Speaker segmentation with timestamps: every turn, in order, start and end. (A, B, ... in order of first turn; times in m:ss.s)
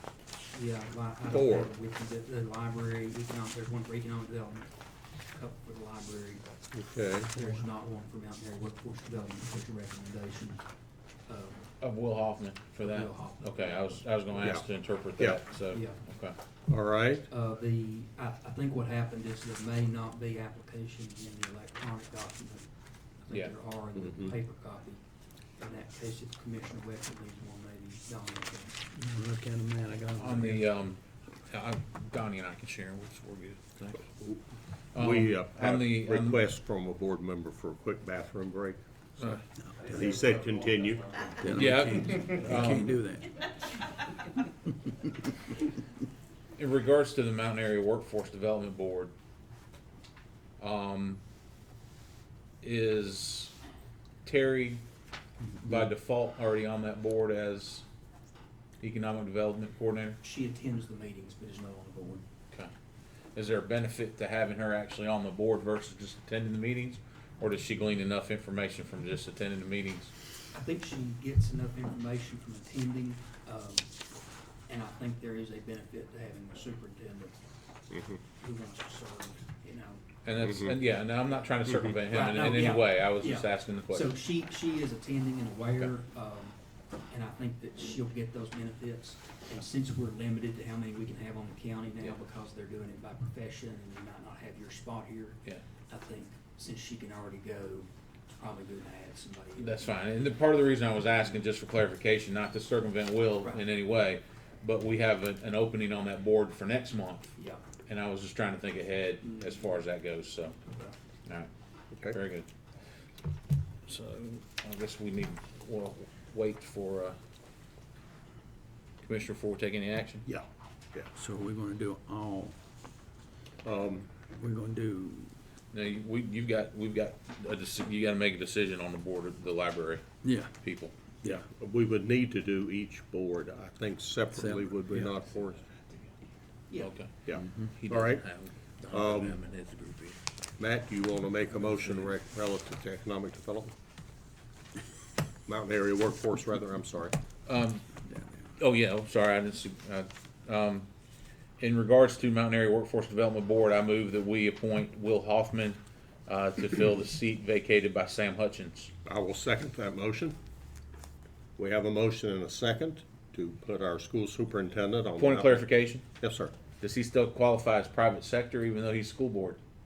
0:00.5-0:04.7 A
0:01.3-0:01.7 B
0:05.3-0:06.5 A
0:06.7-0:07.3 B
0:07.3-0:10.6 A
0:11.2-0:11.8 A
0:11.8-0:16.4 C
0:12.8-0:14.2 A
0:14.4-0:14.6 B
0:15.7-0:16.0 A
0:16.7-0:17.3 B
0:17.3-0:22.7 A
0:23.2-0:25.0 A
0:25.6-0:28.9 A
0:28.9-0:30.6 D
0:30.2-0:34.2 C
0:34.9-0:36.5 C
0:34.9-0:38.8 B
0:39.6-0:40.1 D
0:39.8-0:41.5 B
0:41.4-0:43.4 D
0:41.5-0:42.9 C
0:46.6-0:49.1 C
0:50.6-0:51.2 C
0:52.6-0:53.5 C
0:54.2-0:54.8 C
0:55.6-0:57.8 C
0:58.8-1:00.2 C
1:00.2-1:02.2 A
1:03.3-1:10.1 C
1:10.5-1:13.9 A
1:14.7-1:17.4 A
1:17.9-1:18.2 B
1:18.4-1:20.0 A
1:20.2-1:24.2 C
1:21.4-1:26.6 A
1:27.1-1:37.9 A
1:38.4-1:39.8 A
1:39.6-1:47.3 C
1:47.9-1:50.6 C
1:49.2-1:49.7 A
1:50.6-1:50.9 A
1:51.9-1:52.2 B
1:52.1-1:52.5 C
1:53.8-1:57.2 C
1:59.0-2:00.2 C
2:01.1-2:02.6 D
2:03.6-2:04.1 B
2:04.2-2:05.3 D
2:05.7-2:10.0 C
2:10.2-2:10.5 D
2:10.6-2:10.9 C
2:11.2-2:15.7 B
2:14.3-2:15.1 D
2:16.7-2:17.0 A
2:16.8-2:20.2 C
2:17.2-2:18.2 B
2:17.3-2:17.7 D
2:18.9-2:19.4 B
2:20.6-2:23.7 B
2:25.4-2:27.2 B
2:27.5-2:27.9 C
2:28.6-2:30.9 C
2:31.6-2:38.9 C
2:39.0-2:40.4 B
2:41.6-2:45.7 B
2:45.2-2:46.0 C
2:46.2-2:46.5 B
2:46.8-2:49.6 C